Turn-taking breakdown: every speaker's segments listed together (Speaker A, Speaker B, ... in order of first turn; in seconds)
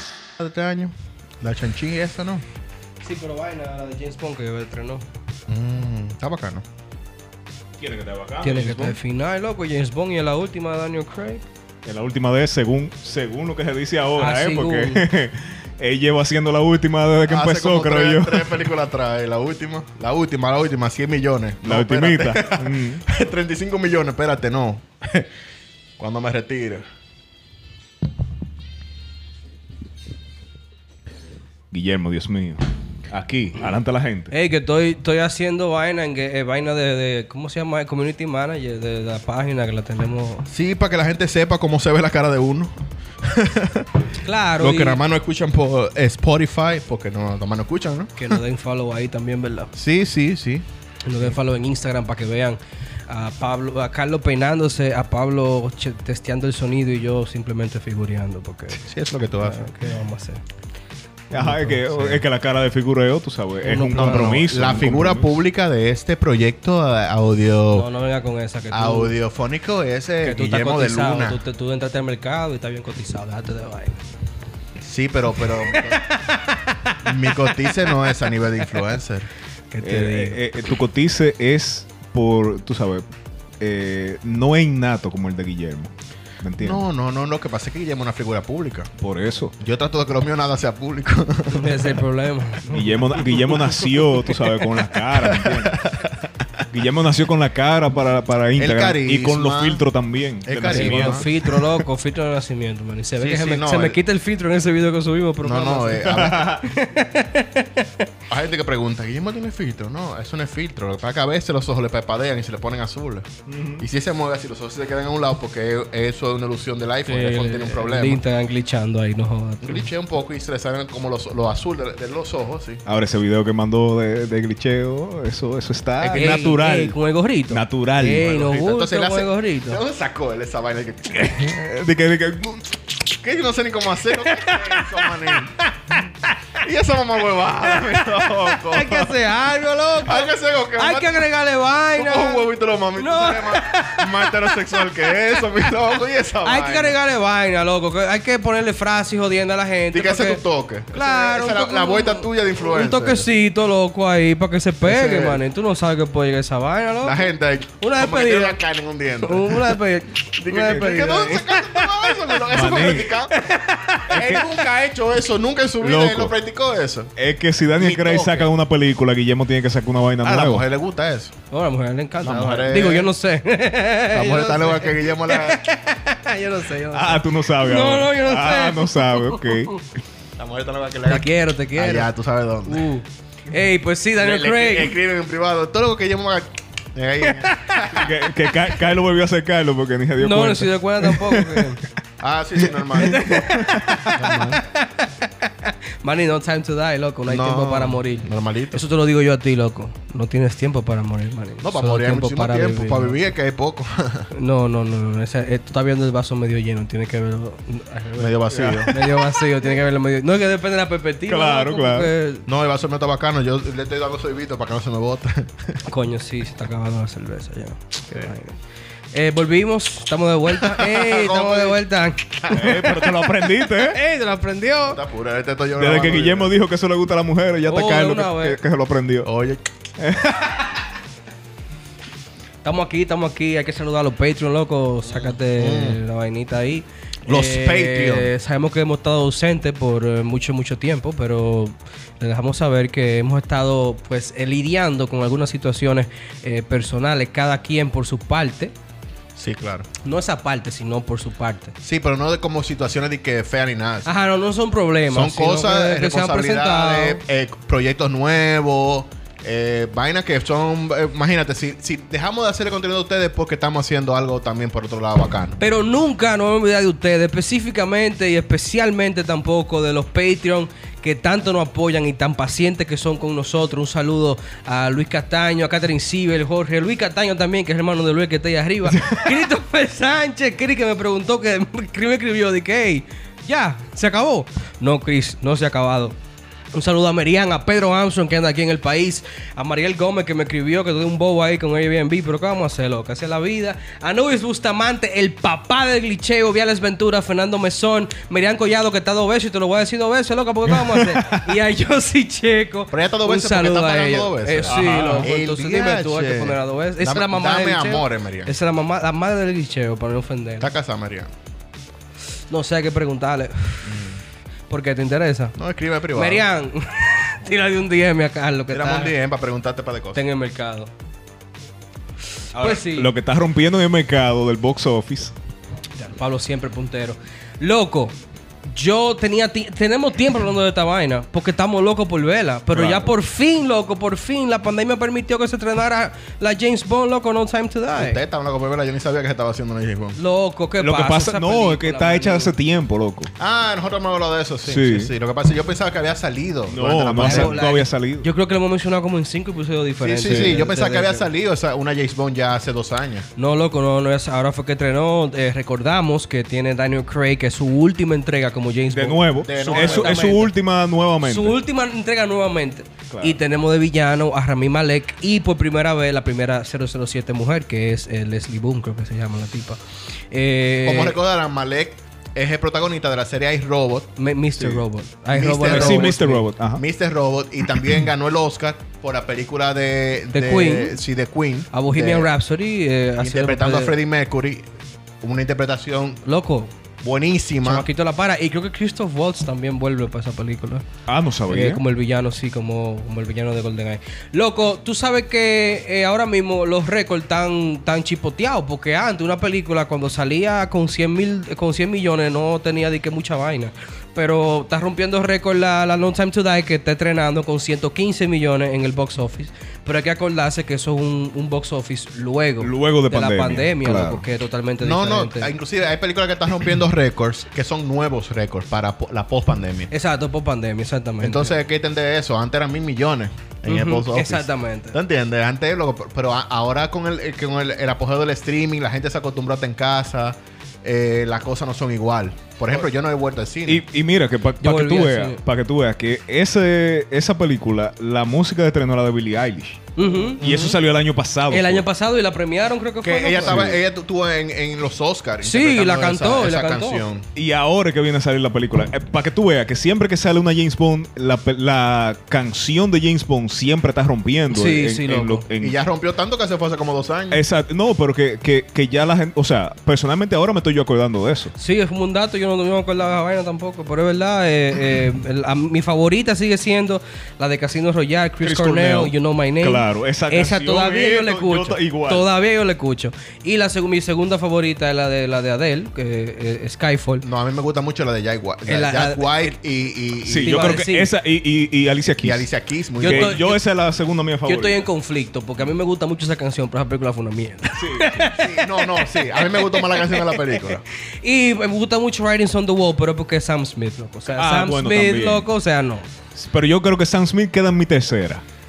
Speaker A: 0.4-2.4, 5.5-6.6, 17.3-25.3, 26.0-26.9, 40.5-48.4, 49.7-50.6, 58.8-59.7, 61.3-62.2, 63.9-67.9, 68.7-71.4, 74.8-76.1, 77.0-79.3, 86.6-88.9, 89.6-91.9, 95.1-96.6, 98.6-99.8, 100.5-101.3, 103.2-104.0, 105.4-106.5, 108.3-118.2, 119.6-122.8, 126.0-126.5, 128.2-131.5, 133.2-135.6, 136.6-139.2, 140.0-141.3, 141.9-147.0, 149.9-153.3, 154.8-155.4, 157.0-159.8, 160.4-167.1, 167.8-168.5, 170.2-171.3, 172.2-173.1, 174.1-175.6, 180.4-182.9, 184.2-188.2, 192.2-193.5, 194.1-194.6, 197.3-198.8, 201.6-204.3, 208.2-208.9, 212.5-215.8, 220.5-221.8, 224.9-226.5, 229.2-229.6, 235.1-236.0, 237.3-238.3, 249.4-249.9, 251.8-254.1, 255.1-265.6, 302.9-308.5, 310.6-311.3, 313.8-314.2, 315.6-316.5, 318.7-320.2, 337.9-340.2, 343.4-347.6, 350.0-353.3, 359.4-360.4, 370.9-374.1, 375.3-376.2, 376.8-382.3, 383.2-384.7, 385.2-386.2, 387.0-387.9, 414.8-419.9, 421.2-433.8, 440.4-440.8, 443.0-447.3, 455.6-457.4, 477.2-480.8, 482.2-483.4, 488.4-490.8
Speaker B: 3.0-5.0, 8.4-11.4, 14.2-15.0, 34.3-40.5, 44.2-45.0, 48.2-49.7, 51.0-58.8, 59.4-60.4, 63.6-64.4, 67.7-69.2, 70.2-74.0, 75.6-78.9, 79.7-80.4, 91.5-93.7, 100.7-107.9, 117.1-119.9, 126.2-129.8, 134.5-135.3, 138.6-145.2, 146.4-150.4, 150.9-157.2, 157.8-158.6, 159.2-162.4, 163.3-164.2, 171.5-179.8, 181.1-182.1, 182.7-184.9, 187.3-188.0, 190.2-191.8, 193.0-203.2, 204.3-212.5, 215.9-218.6, 219.1-223.1, 223.9-225.0, 227.7-228.6, 232.6-248.7, 250.0-251.7, 254.1-257.2, 265.6-286.2, 286.7-310.7, 312.5-314.0, 314.7-315.6, 316.1-319.1, 320.1-320.9, 322.5-323.1, 326.0-328.1, 328.7-338.2, 340.2-342.5, 347.2-351.3, 353.4-360.5, 361.2-369.8, 370.3-371.2, 374.2-376.4, 380.3-381.0, 381.7-384.0, 386.2-386.7, 387.6-390.9, 391.5-415.5, 419.9-421.5, 423.7-425.0, 434.6-435.4, 440.0-440.4, 441.5-443.7, 445.4-447.0, 454.5-455.4, 461.6-477.2, 478.7-479.5, 480.4-481.1, 483.0-483.6, 484.5-496.1
Speaker C: 7.8-9.0, 11.8-18.6, 21.6-23.0, 31.7-34.3, 61.3-65.4, 79.8-83.0, 83.6-85.9, 86.4-86.8, 89.0-89.5, 92.7-95.8, 96.7-101.7, 106.1-106.7, 113.5-113.8, 122.9-127.0, 127.5-128.3, 131.2-133.0, 162.5-163.2, 164.1-164.4, 165.8-166.3, 167.2-170.7, 176.9-179.9, 187.9-191.7, 192.6-194.0, 208.5-209.0, 211.3-212.1, 222.5-224.0, 225.8-229.3, 230.0-230.8, 278.9-279.3, 300.9-301.4, 304.7-305.3, 322.6-325.3, 332.7-333.1, 340.8-343.3, 344.7-345.1, 346.7-348.3, 350.3-350.6, 358.9-361.6, 363.1-363.4, 375.7-376.8, 391.1-391.8, 412.6-414.2, 433.7-441.9, 443.4-443.8, 447.4-455.8, 457.3-461.5, 468.4-472.3, 480.3-482.5, 483.1-484.9, 487.8-488.4, 494.4-495.5, 496.4-498.4